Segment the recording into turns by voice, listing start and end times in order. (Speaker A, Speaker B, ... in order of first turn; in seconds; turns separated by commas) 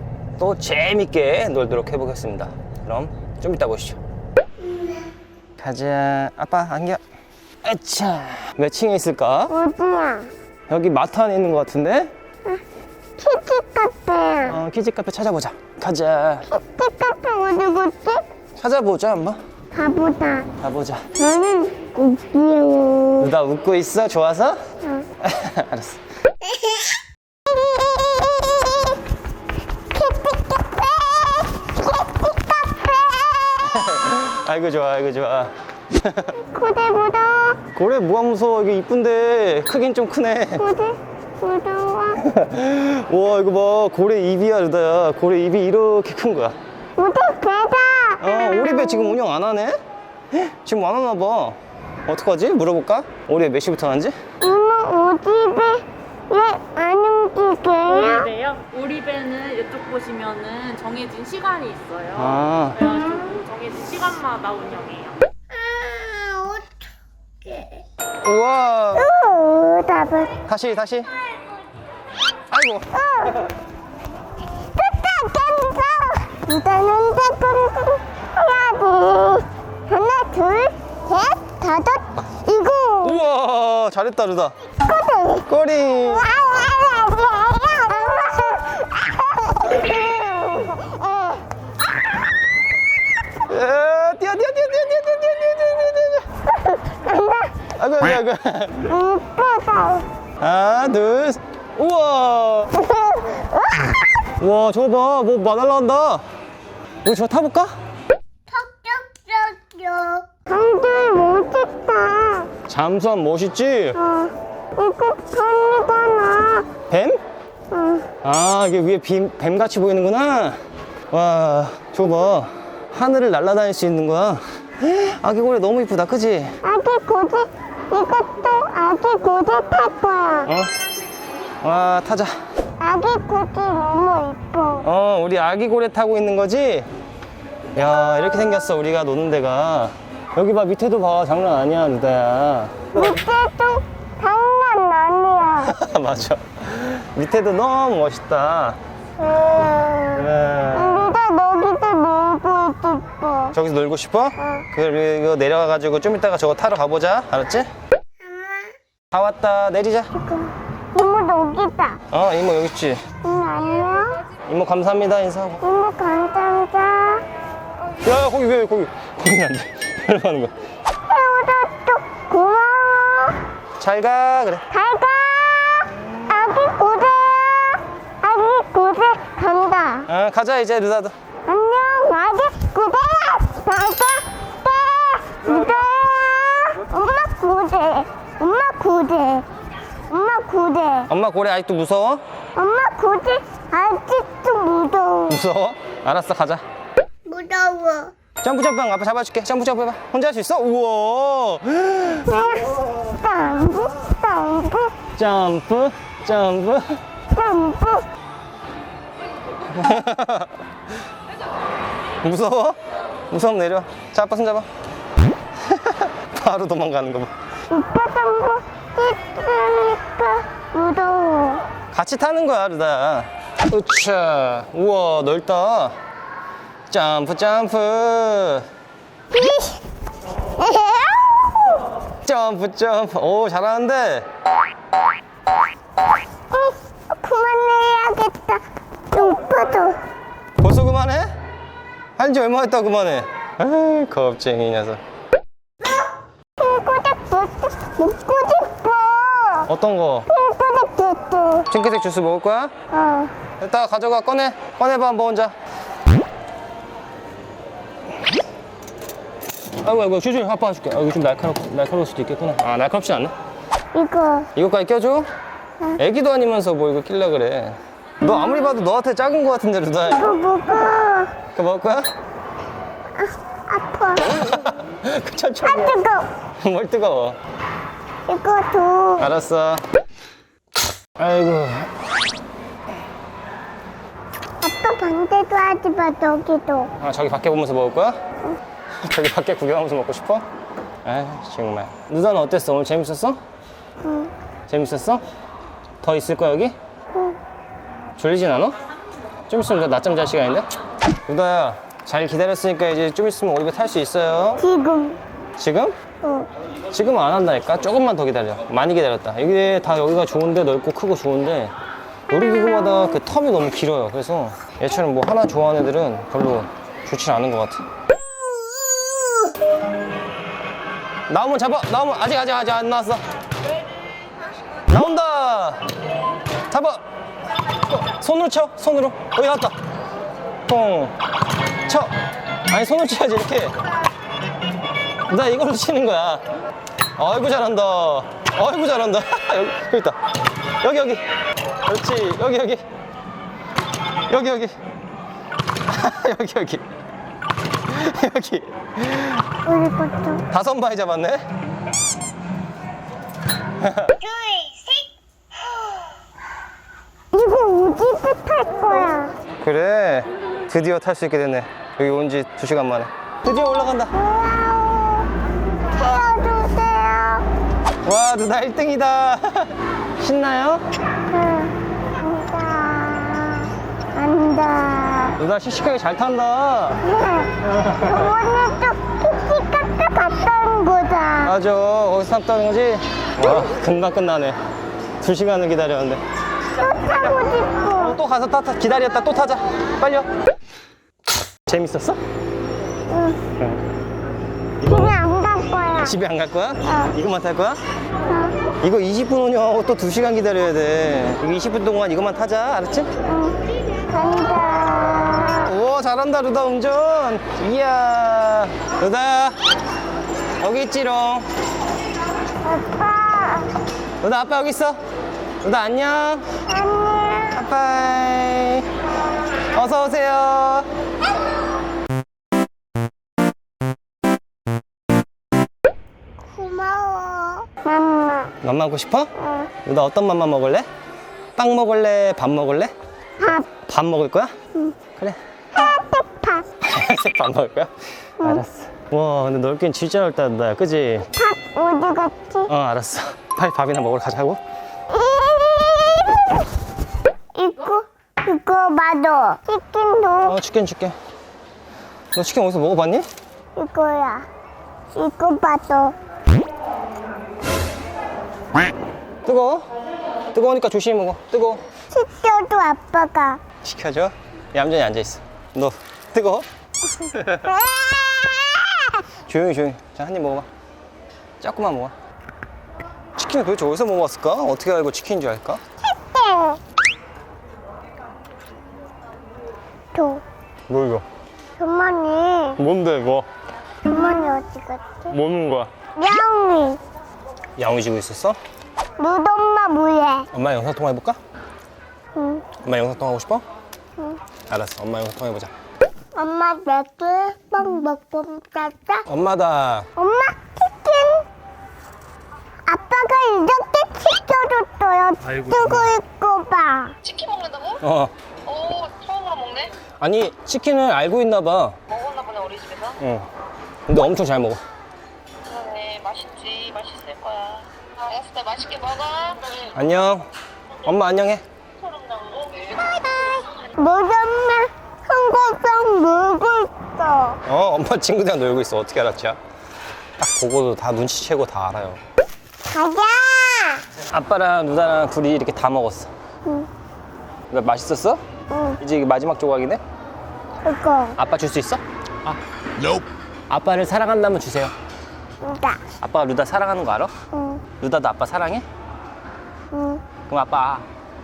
Speaker A: 0.4-4.0, Speaker B: 4.6-5.1, Speaker A: 5.6-7.0, Speaker A: 7.6-9.6, Speaker B: 9.5-10.3, Speaker A: 10.7-12.1, Speaker B: 13.2-14.6, Speaker A: 14.4-16.5, Speaker B: 16.5-18.2, Speaker A: 18.6-19.4, Speaker B: 19.7-20.5, Speaker A: 20.6-21.0, Speaker B: 21.1-23.3, Speaker A: 23.2-24.6, Speaker A: 25.2-26.0, Speaker B: 27.5-28.9, Speaker B: 29.9-33.7, Speaker A: 33.6-36.4, Speaker B: 36.4-37.6, Speaker A: 37.7-40.6, Speaker B: 40.6-42.2, Speaker A: 42.1-46.6, Speaker B: 47.0-49.1, Speaker A: 48.2-49.8, Speaker A: 50.3-54.1, Speaker B: 54.4-58.3, Speaker C: 58.0-65.2, Speaker A: 62.1-62.9, Speaker B: 65.5-66.8, Speaker B: 67.4-67.8, Speaker A: 68.2-69.1, Speaker B: 68.9-70.4, Speaker A: 70.4-71.1, Speaker A: 72.5-72.9, Speaker B: 72.9-73.4, Speaker B: 74.6-83.2, Speaker A: 83.0-84.6, Speaker B: 84.8-85.5, Speaker A: 85.5-86.3, Speaker B: 86.0-91.4, Speaker A: 93.5-96.3, Speaker B: 96.7-97.6, Speaker A: 97.7-98.9, Speaker B: 98.8-100.1, Speaker A: 100.4-102.8, Speaker B: 102.7-104.0, Speaker A: 104.4-106.2, Speaker A: 107.0-107.8, Speaker B: 108.5-112.5, Speaker A: 112.6-114.0, Speaker B: 114.0-116.7, Speaker A: 116.9-117.2, Speaker B: 117.7-118.1, Speaker A: 118.2-120.6, Speaker A: 121.1-126.6, Speaker B: 126.6-130.5, Speaker A: 130.4-130.7, Speaker A: 131.6-132.4, Speaker B: 132.8-134.8, Speaker A: 134.8-136.9, Speaker A: 137.7-143.1, Speaker B: 142.9-145.7, Speaker A: 145.6-148.8, Speaker B: 149.2-153.5, Speaker A: 150.1-151.1, Speaker A: 153.5-157.7, Speaker B: 158.2-158.7, Speaker A: 159.1-160.1, Speaker B: 160.1-162.0, Speaker A: 162.1-163.0, Speaker B: 163.2-164.2, Speaker A: 164.4-165.6, Speaker B: 165.6-167.2, Speaker A: 168.0-170.5, Speaker B: 171.1-173.4, Speaker A: 173.8-174.7, Speaker B: 174.7-180.1, Speaker A: 180.1-181.1, Speaker B: 181.5-189.5, Speaker B: 190.1-191.1, Speaker A: 191.1-192.2, Speaker B: 192.5-195.4, Speaker A: 195.3-196.6, Speaker B: 197.2-198.1, Speaker A: 198.4-202.4, Speaker B: 202.2-205.0, Speaker A: 205.1-207.0, Speaker B: 207.3-208.1, Speaker A: 209.7-210.5, Speaker A: 212.2-212.8, Speaker A: 213.3-214.7, Speaker A: 215.7-217.3, Speaker B: 217.7-221.6, Speaker A: 221.9-226.0, Speaker A: 226.9-228.7, Speaker B: 229.3-229.8, Speaker B: 230.6-231.5, Speaker A: 232.2-234.3, Speaker B: 236.5-240.0, Speaker A: 240.6-241.3, Speaker A: 242.2-245.0, Speaker B: 246.6-249.7, Speaker A: 249.7-250.3, Speaker B: 250.3-251.7, Speaker A: 251.7-252.7, Speaker B: 252.9-253.3, Speaker A: 253.6-255.5, Speaker A: 259.8-263.3, Speaker B: 263.9-264.5, Speaker A: 264.5-265.3, Speaker A: 266.0-270.2, Speaker B: 270.1-271.4, Speaker A: 271.5-272.1, Speaker B: 273.1-274.5, Speaker A: 274.3-276.0, Speaker B: 275.6-276.3, Speaker A: 276.6-277.4, Speaker B: 278.3-279.3, Speaker A: 279.2-279.8, Speaker A: 281.2-281.9, Speaker B: 284.6-286.9, Speaker A: 287.0-288.2, Speaker A: 289.0-290.5, Speaker A: 291.0-293.4, Speaker B: 294.0-294.3, Speaker A: 294.7-295.2, Speaker A: 296.0-296.8, Speaker A: 298.2-298.8, Speaker A: 299.5-300.7, Speaker A: 301.2-304.6, Speaker B: 304.6-305.2, Speaker A: 305.6-305.9, Speaker B: 306.2-306.5, Speaker A: 306.9-311.7, Speaker A: 312.3-317.8, Speaker A: 321.3-323.2, Speaker A: 324.9-325.8, Speaker A: 326.7-327.0, Speaker A: 327.9-329.8, Speaker A: 330.7-331.1, Speaker A: 331.9-332.1, Speaker A: 332.7-333.8, Speaker A: 335.3-336.4, Speaker A: 337.2-340.2, Speaker A: 340.8-341.2, Speaker A: 341.9-342.8, Speaker A: 344.3-344.8, Speaker A: 345.9-346.8, Speaker A: 347.9-349.4, Speaker B: 349.6-350.4, Speaker A: 350.5-351.4, Speaker A: 353.8-354.1, Speaker B: 354.2-355.1, Speaker B: 357.3-359.3, Speaker A: 359.6-364.2, Speaker B: 364.1-365.3, Speaker B: 365.8-367.5, Speaker A: 368.0-370.8, Speaker B: 371.3-375.4, Speaker A: 375.4-377.0, Speaker B: 377.0-381.5, Speaker A: 377.6-378.2, Speaker A: 381.4-384.6, Speaker A: 385.2-386.2, Speaker B: 386.7-388.2, Speaker A: 388.0-390.3, Speaker A: 391.7-392.2, Speaker B: 393.1-393.4, Speaker A: 394.8-395.1, Speaker B: 394.8-396.2, Speaker A: 396.0-397.8, Speaker B: 396.9-397.1, Speaker B: 398.3-398.6, Speaker A: 398.8-403.1, Speaker B: 403.3-405.7, Speaker A: 405.6-409.6, Speaker A: 410.6-411.4, Speaker B: 412.6-413.8, Speaker A: 414.2-415.0, Speaker A: 415.6-416.5, Speaker B: 416.6-417.6, Speaker A: 417.5-418.9, Speaker A: 419.7-420.9, Speaker B: 426.5-428.5, Speaker A: 428.6-429.3, Speaker B: 429.4-429.7, Speaker A: 429.8-430.9, Speaker A: 431.6-432.9, Speaker B: 433.4-433.7, Speaker A: 433.7-434.5, Speaker B: 435.7-436.7, Speaker A: 436.8-441.3, Speaker B: 441.3-442.7, Speaker A: 442.7-444.6, Speaker B: 445.1-446.6, Speaker B: 447.5-450.6, Speaker A: 450.4-451.1, Speaker A: 452.3-453.3, Speaker B: 453.8-454.5, Speaker B: 455.1-456.1, Speaker A: 459.4-459.9, Speaker A: 460.5-461.8, Speaker B: 462.1-463.6, Speaker A: 463.8-466.7, Speaker A: 467.3-467.7, Speaker B: 467.5-469.2, Speaker A: 469.5-470.7, Speaker A: 471.6-472.1, Speaker A: 473.4-475.8, Speaker B: 476.0-476.8, Speaker B: 480.1-480.4, Speaker A: 480.9-481.2, Speaker B: 481.8-482.8, Speaker A: 482.8-483.5, Speaker B: 484.0-485.3, Speaker A: 485.3-485.9, Speaker B: 486.1-487.0, Speaker A: 487.8-488.6, Speaker B: 489.2-490.5, Speaker A: 490.5-491.4, Speaker B: 492.3-492.7, Speaker A: 492.8-493.6, Speaker A: 494.7-495.7, Speaker B: 496.3-499.2, Speaker A: 499.2-500.1, Speaker B: 500.1-501.4, Speaker B: 502.9-507.2, Speaker A: 505.4-506.1, Speaker D: 507.3-508.0, Speaker A: 508.0-508.3, Speaker D: 508.7-509.9, Speaker A: 510.2-512.0, Speaker D: 512.1-513.1, Speaker A: 513.2-513.5, Speaker A: 514.1-514.8, Speaker D: 515.7-519.7, Speaker A: 519.8-521.6, Speaker D: 522.1-522.9, Speaker B: 522.9-527.6, Speaker A: 527.6-529.6, Speaker A: 530.4-532.2, Speaker B: 532.8-534.0, Speaker A: 534.3-536.3, Speaker A: 537.7-538.4, Speaker B: 538.7-539.0, Speaker A: 539.0-540.0, Speaker B: 540.8-541.4, Speaker A: 541.4-542.6, Speaker A: 543.1-544.9, Speaker B: 545.6-546.0, Speaker A: 546.2-547.3, Speaker B: 547.5-547.8, Speaker A: 548.0-548.8, Speaker B: 549.9-550.2, Speaker A: 550.5-551.0